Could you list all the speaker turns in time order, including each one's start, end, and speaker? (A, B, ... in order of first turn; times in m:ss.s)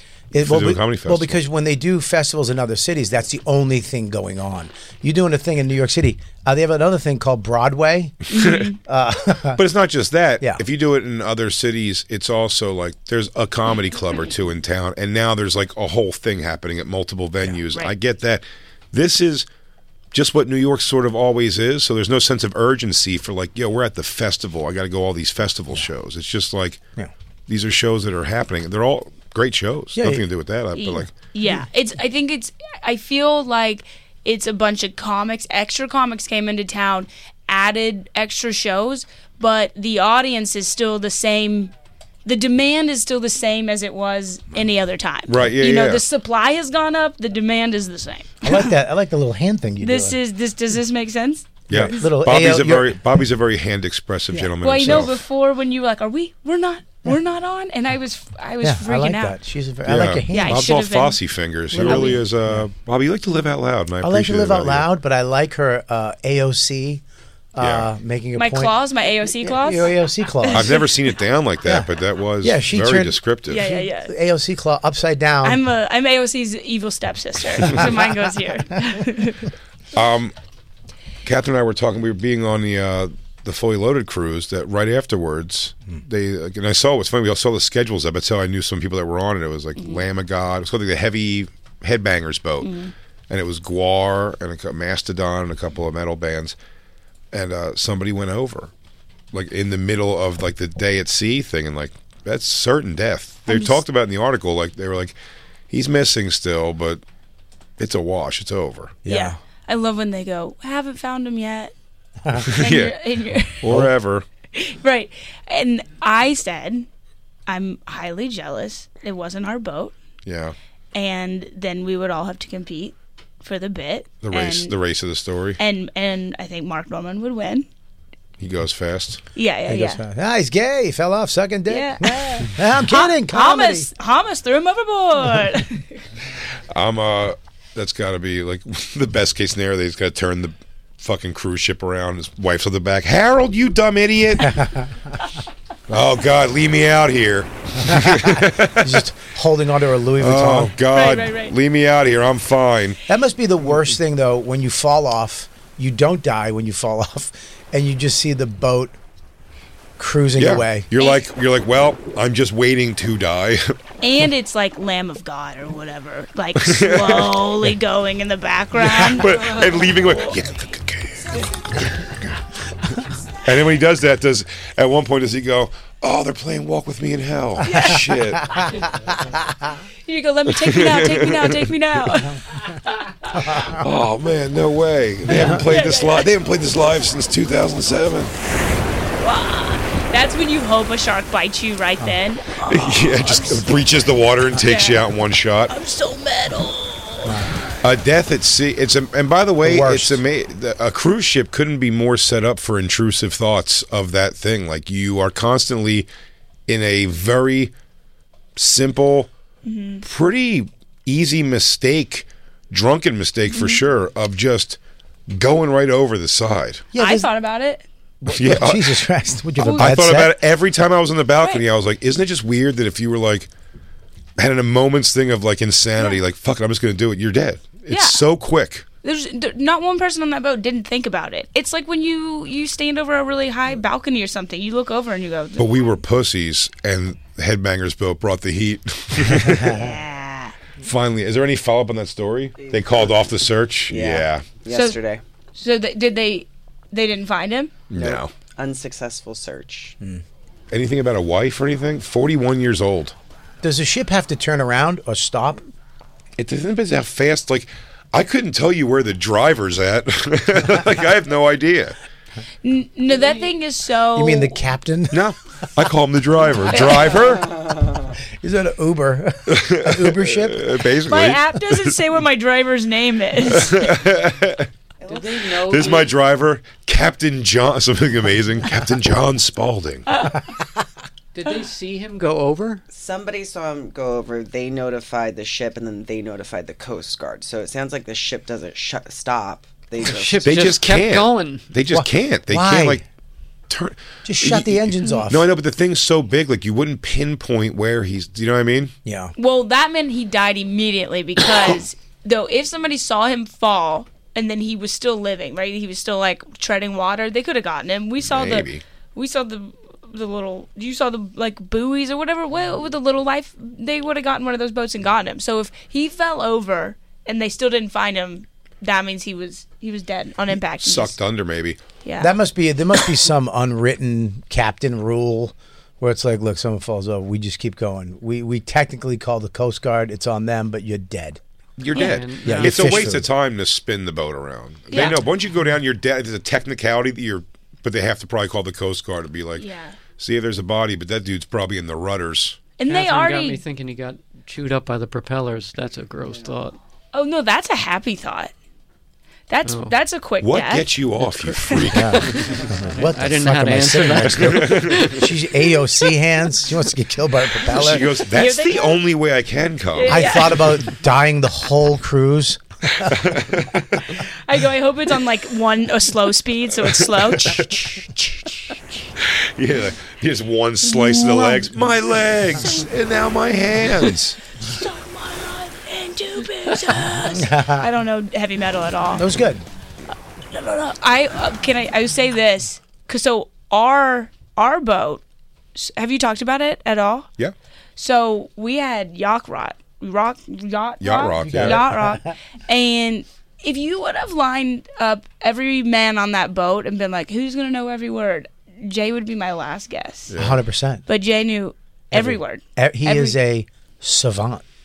0:00.3-0:09.6 A
0:00.4-0:01.4 B
0:08.3-0:08.8 C
0:08.3-0:08.6 B
0:09.6-0:19.4 B
0:20.1-0:26.8 B
0:27.5-0:31.1 B
0:30.0-0:30.2 A
0:30.7-0:41.7 C
0:42.2-0:48.7 C
0:45.3-0:46.0 B
0:48.4-0:50.2 A
0:49.8-0:51.6 C
0:51.7-0:55.2 B
0:51.7-0:53.0 A
0:54.3-0:55.0 A
0:54.6-0:59.4 C
0:58.6-1:00.7 A
0:59.9-1:04.9 B
1:00.3-1:01.2 C
1:01.7-1:02.7 A
1:01.8-1:02.2 C
1:04.0-1:07.0 A
1:07.5-1:08.7 A
1:07.6-1:07.9 B
1:08.4-1:10.7 C
1:09.4-1:10.8 A
1:10.5-1:13.7 B
1:11.6-1:11.9 A
1:12.4-1:15.6 A
1:13.5-1:14.1 C
1:15.4-1:19.5 C
1:19.9-1:20.3 B
1:21.2-1:32.7 B
1:32.6-1:32.9 C
1:33.3-1:36.5 B
1:37.3-1:38.7 B
1:39.3-1:45.1 B
1:43.5-1:43.8 C
1:45.7-1:47.0 B
1:47.8-1:49.0 B
1:49.0-1:49.4 A
1:49.1-1:51.7 C
1:52.2-1:52.5 A
1:52.4-1:52.9 B
1:52.5-1:53.6 C
1:53.6-1:54.2 B
1:54.5-1:56.9 C
1:57.5-1:59.9 C
2:00.2-2:00.5 B
2:00.9-2:04.7 C
2:04.2-2:05.6 B
2:05.6-2:07.6 C
2:08.4-2:09.2 B
2:09.3-2:10.0 C
2:09.7-2:13.9 A
2:11.7-2:16.0 C
2:16.7-2:24.6 B
2:24.5-2:24.9 A
2:25.9-2:29.0 B
2:27.8-2:30.7 A
2:30.2-2:33.0 B
2:30.9-2:31.5 C
2:33.1-2:38.9 A
2:40.0-2:40.9 A
2:40.4-2:43.8 B
2:44.0-2:49.6 C
2:46.6-2:47.5 B
2:48.8-2:51.8 B
2:53.4-2:58.5 B
2:57.6-2:58.0 C
2:57.7-2:58.1 A
2:59.1-2:59.4 A
3:00.0-3:03.2 C
3:00.6-3:01.7 B
3:03.4-3:03.8 A
3:03.7-3:08.3 B
3:05.3-3:05.6 A
3:05.5-3:06.3 C
3:09.2-3:13.6 C
3:12.7-3:15.7 B
3:14.6-3:15.1 C
3:15.7-3:17.3 C
3:17.2-3:17.6 A
3:17.8-3:26.1 B
3:19.6-3:20.2 A
3:26.7-3:27.7 B
3:28.6-3:29.3 B
3:29.6-3:30.0 C
3:30.0-3:34.8 B
3:33.5-3:33.8 C
3:35.3-3:36.8 B
3:36.9-3:37.3 A
3:37.0-3:37.8 C
3:38.2-3:40.4 A
3:38.3-3:39.0 B
3:39.6-3:43.5 B
3:39.6-3:40.0 C
3:44.4-3:48.8 B
3:47.9-3:48.2 C
3:49.0-3:55.9 C
3:55.6-3:59.8 B
3:59.4-3:59.9 A
3:59.7-4:00.5 C
4:00.8-4:04.4 B
4:02.6-4:03.1 D
4:03.9-4:05.2 D
4:04.7-4:05.0 C
4:05.5-4:07.7 C
4:07.9-4:08.3 B
4:07.9-4:10.0 D
4:10.7-4:13.1 B
4:13.6-4:15.6 A
4:16.4-4:22.0 B
4:22.6-4:24.6 C
4:24.1-4:25.2 A
4:25.1-4:27.6 B
4:26.7-4:27.1 C
4:27.4-4:27.9 D
4:28.4-4:30.7 A
4:29.5-4:32.0 B
4:31.1-4:33.9 C
4:33.5-4:34.7 B
4:35.0-4:36.1 D
4:35.0-4:36.1 E
4:35.6-4:40.0 B
4:40.1-4:40.4 C
4:41.3-4:42.8 E
4:42.9-4:50.7 D
4:50.0-4:51.7 E
4:50.4-4:53.0 B
4:51.9-4:53.0 A
4:53.7-4:58.9 B
4:54.2-4:55.5 A
4:59.0-4:59.3 A
4:59.4-5:21.2 C
5:08.2-5:08.8 B
5:20.8-5:21.8 B
5:22.0-5:22.3 C
5:22.2-5:31.4 A
5:31.8-5:39.6 B
5:31.9-5:32.2 C
5:32.0-5:33.0 E
5:32.4-5:33.3 A
5:34.9-5:35.2 C
5:39.6-5:40.0 C
5:40.2-5:42.6 B
5:42.8-5:43.6 C
5:42.9-5:46.8 E
5:47.1-5:48.5 C
5:49.5-5:50.9 C
5:49.6-5:49.9 E
5:50.4-5:52.3 B
5:51.9-5:58.1 A
5:52.2-5:55.2 E
5:54.3-5:55.1 B
5:57.6-6:00.4 B
5:58.3-5:59.0 C
6:00.0-6:00.6 C
6:00.0-6:03.2 A
6:03.0-6:04.0 B
6:04.4-6:07.7 C
6:07.0-6:08.1 B
6:09.2-6:14.4 B
6:10.9-6:11.6 C
6:14.6-6:19.3 C
6:17.2-6:17.9 A
6:19.1-6:19.6 A
6:20.5-6:25.2 C
6:25.7-6:27.3 C
6:28.0-6:40.3 C
6:31.0-6:31.9 B
6:31.4-6:32.3 A
6:40.3-6:40.6 B
6:40.4-6:41.0 A
6:41.1-6:43.4 C
6:42.1-6:44.6 A